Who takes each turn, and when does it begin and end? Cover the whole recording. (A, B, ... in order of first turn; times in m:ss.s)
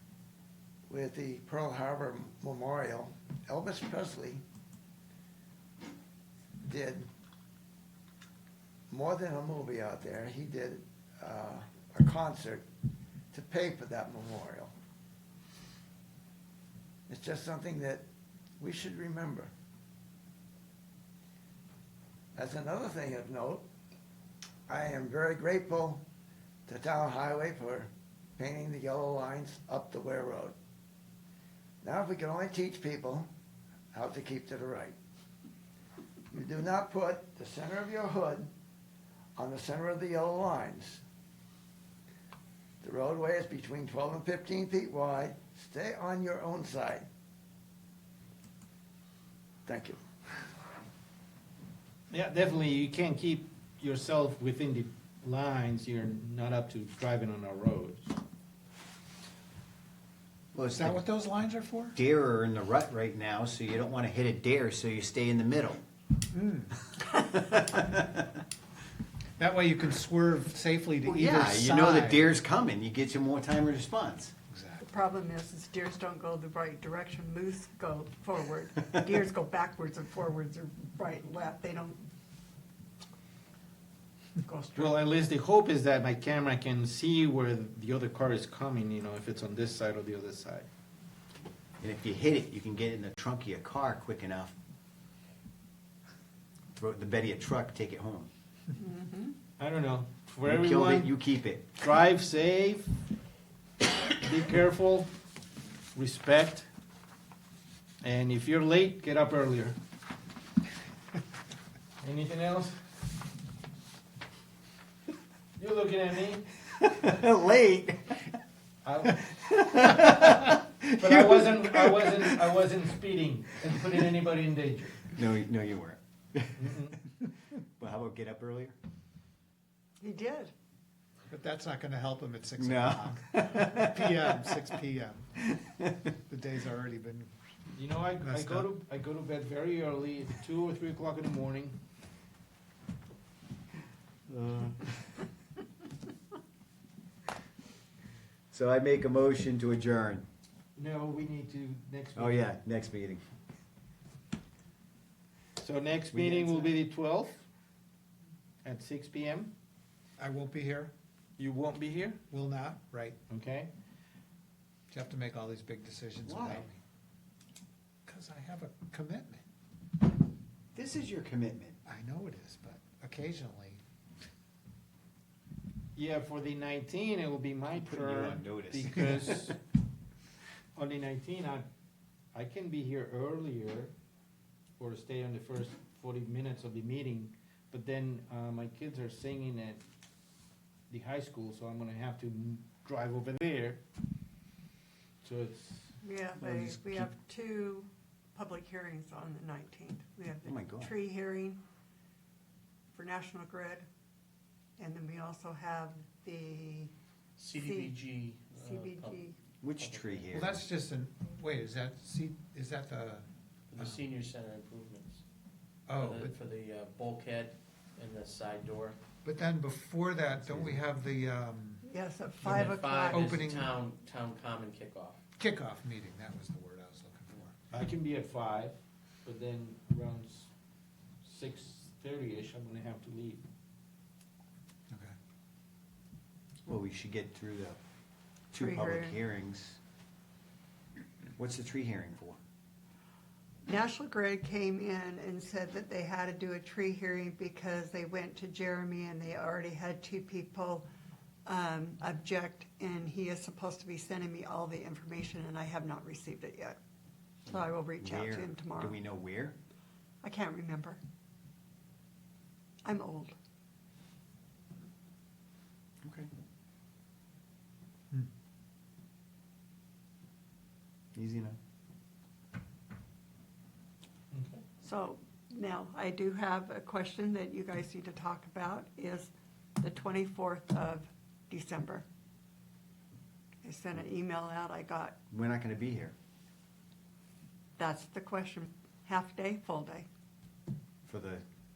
0:00.9-0:04.4 A
0:06.6-0:07.1 A
0:08.9-0:12.6 A
0:13.3-0:14.7 A
0:17.1-0:18.0 A
0:18.6-0:19.5 A
0:22.3-0:23.6 A
0:24.7-0:26.0 A
0:26.7-0:30.5 A
0:31.8-0:33.3 A
0:33.9-0:35.0 A
0:36.3-0:38.5 A
0:39.4-0:41.0 A
0:42.8-0:47.1 A
0:49.6-0:50.0 A
0:52.1-0:58.1 B
1:00.5-1:01.0 C
1:00.8-1:01.9 D
1:02.0-1:05.8 C
1:06.3-1:06.7 D
1:07.2-1:08.2 C
1:09.4-1:12.3 D
1:11.0-1:14.3 C
1:14.5-1:14.8 D
1:14.8-1:22.0 E
1:24.4-1:25.0 E
1:24.8-1:30.7 B
1:31.8-1:34.5 C
1:36.7-1:38.3 C
1:38.8-1:39.3 E
1:39.6-1:41.1 B
1:40.4-1:41.6 C
1:41.8-1:42.9 B
1:44.1-1:45.1 B
1:45.9-1:46.7 B
1:48.0-1:49.8 B
1:52.0-1:52.8 B
1:55.6-1:56.5 B
1:56.7-1:58.3 C
1:58.8-1:59.2 B
1:59.1-2:02.3 C
2:00.9-2:05.1 B
2:05.1-2:06.7 C
2:06.6-2:07.0 B
2:07.8-2:08.7 C
2:10.0-2:10.5 E
2:11.3-2:15.3 D
2:12.6-2:14.4 C
2:16.2-2:17.3 D
2:17.7-2:21.8 B
2:18.2-2:18.7 D
2:24.3-2:25.0 C
2:28.5-2:30.2 C
2:30.8-2:32.5 B
2:32.2-2:33.2 C
2:35.6-2:37.4 B
2:36.1-2:36.7 C
2:38.6-2:39.5 B
2:40.2-2:40.9 D
2:41.4-2:42.2 B
2:42.3-2:43.2 D
2:43.3-2:43.7 B
2:44.9-2:46.8 D
2:46.2-2:46.6 C
2:48.0-2:49.4 D
2:50.7-2:51.8 C
2:51.8-2:53.8 D
2:55.9-2:59.6 B
2:57.8-2:59.5 C
3:00.7-3:01.7 B
3:02.3-3:03.9 B
3:04.8-3:09.8 B
3:10.9-3:13.8 B
3:15.2-3:15.9 B
3:16.0-3:21.6 E
3:20.4-3:20.9 C
3:22.9-3:23.8 E
3:24.8-3:26.9 E
3:27.4-3:30.5 F
3:27.5-3:28.0 E
3:28.6-3:29.4 E
3:29.6-3:30.6 C
3:30.3-3:33.2 D
3:33.7-3:35.2 F
3:35.9-3:36.4 D
3:35.9-3:39.0 F
3:39.2-3:41.9 D
3:40.4-3:40.8 F
3:41.8-3:43.4 E
3:42.4-3:45.2 F
3:42.4-3:43.7 D
3:45.4-3:47.5 D
3:47.7-3:50.5 B
3:51.2-3:53.4 B
3:56.7-3:57.8 C
3:58.5-3:59.8 C
3:58.5-3:59.2 E
4:01.4-4:02.4 C
4:03.6-4:10.8 E
4:11.4-4:16.8 E
4:17.4-4:19.0 E
4:18.0-4:19.6 C
4:20.2-4:21.0 E
4:22.8-4:23.3 E
4:26.0-4:26.3 C
4:31.1-4:31.6 C
4:34.3-4:34.6 B
4:34.8-4:42.0 E
4:43.6-4:45.1 E
4:45.3-4:46.1 C
4:47.8-4:50.1 E
4:51.0-4:51.4 C